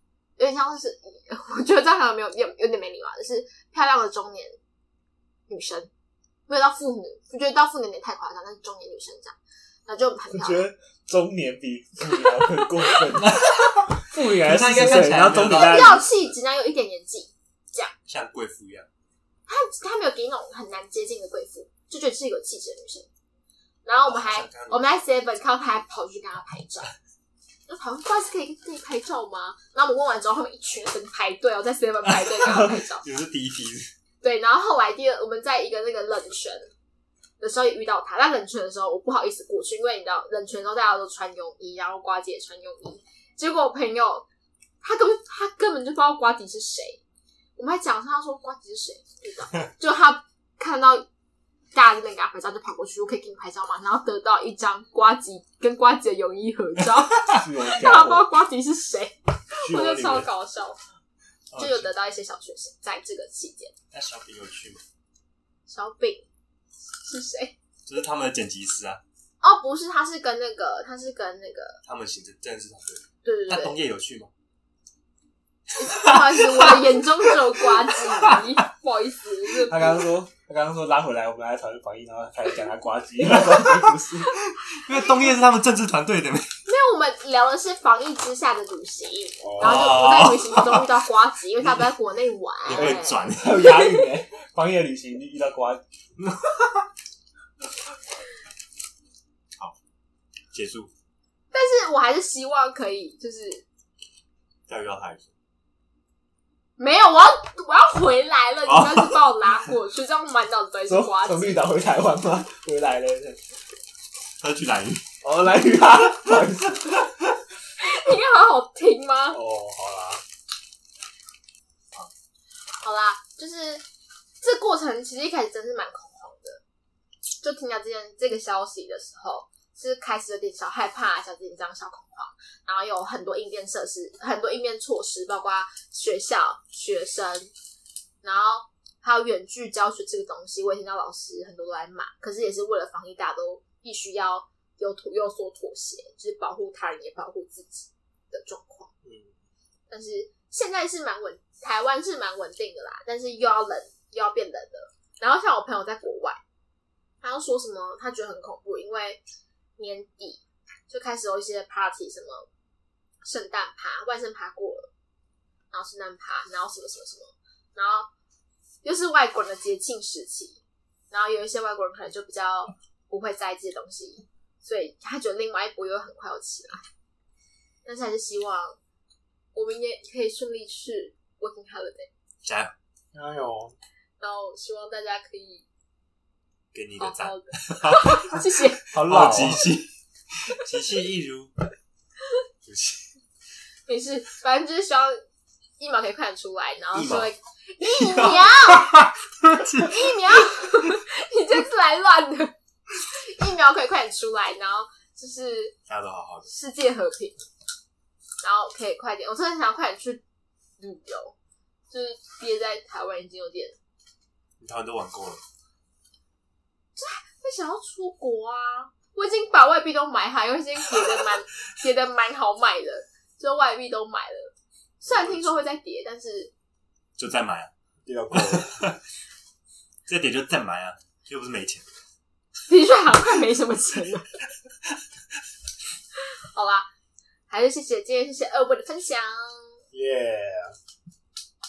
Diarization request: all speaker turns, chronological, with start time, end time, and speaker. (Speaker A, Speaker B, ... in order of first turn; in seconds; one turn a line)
Speaker A: 0.4-4.6
Speaker A: 5.5-5.9
Speaker A: 6.5-9.4
Speaker A: 9.9-10.7
Speaker B: 10.3-13.4
Speaker A: 12.1-13.0
Speaker C: 13.2-16.3
Speaker B: 14.0-16.1
Speaker A: 15.5-17.9
Speaker C: 18.1-18.9
Speaker A: 19.5-23.1
Speaker A: 23.9-26.9
Speaker C: 24.1-25.3
Speaker A: 27.7-33.0
Speaker C: 32.0-33.9
Speaker A: 34.2-36.7
Speaker A: 37.4-44.3
Speaker A: 44.8-47.0
Speaker A: 47.6-51.1
Speaker A: 51.7-60.8
Speaker B: 57.3-58.3
Speaker B: 59.6-60.3
Speaker C: 61.5-61.9
Speaker A: 61.6-63.7
Speaker C: 63.9-64.8
Speaker A: 65.7-66.3
Speaker A: 67.0-67.5
Speaker C: 67.8-69.0
Speaker A: 69.4-71.8
Speaker C: 71.8-74.3
Speaker A: 73.2-73.8
Speaker A: 75.8-80.0
Speaker C: 75.8-78.6
Speaker B: 79.7-84.3
Speaker C: 83.4-84.0
Speaker C: 84.5-86.5
Speaker A: 86.7-94.1
Speaker B: 89.4-90.3
Speaker C: 89.6-90.9
Speaker C: 91.7-91.9
Speaker C: 92.7-93.7
Speaker B: 92.7-95.8
Speaker C: 96.2-96.9
Speaker C: 100.5-100.9
Speaker A: 101.5-103.7
Speaker C: 104.7-105.3
Speaker A: 106.8-111.7
Speaker C: 108.7-109.2
Speaker B: 110.9-113.4
Speaker C: 114.4-115.0
Speaker B: 115.2-117.1
Speaker C: 116.3-116.8
Speaker A: 117.8-119.4
Speaker B: 119.3-120.2
Speaker A: 122.8-123.8
Speaker A: 124.4-126.6
Speaker A: 127.4-137.5
Speaker A: 138.2-148.9
Speaker B: 149.1-149.3
Speaker A: 149.9-156.4
Speaker A: 157.2-159.2
Speaker A: 159.8-162.5
Speaker A: 163.2-164.9
Speaker A: 165.7-168.1
Speaker A: 168.8-176.8
Speaker A: 177.8-178.8
Speaker A: 179.6-182.1
Speaker C: 182.4-182.7
Speaker B: 183.1-183.8
Speaker A: 184.2-185.7
Speaker C: 186.7-191.5
Speaker A: 187.0-188.8
Speaker B: 188.9-189.7
Speaker C: 192.6-193.1
Speaker A: 193.9-195.2
Speaker A: 195.8-198.9
Speaker C: 196.9-197.3
Speaker C: 197.8-200.8
Speaker A: 199.8-205.8
Speaker C: 205.9-206.5
Speaker A: 206.5-207.4
Speaker A: 208.4-210.2
Speaker A: 210.8-211.4
Speaker A: 211.9-213.8
Speaker C: 214.6-215.4
Speaker A: 217.0-226.5
Speaker C: 225.0-225.6
Speaker C: 227.2-227.7
Speaker B: 228.1-228.8
Speaker C: 228.3-229.0
Speaker C: 230.1-231.9
Speaker A: 232.7-234.3
Speaker A: 236.5-236.9
Speaker A: 237.5-239.8
Speaker B: 239.9-240.8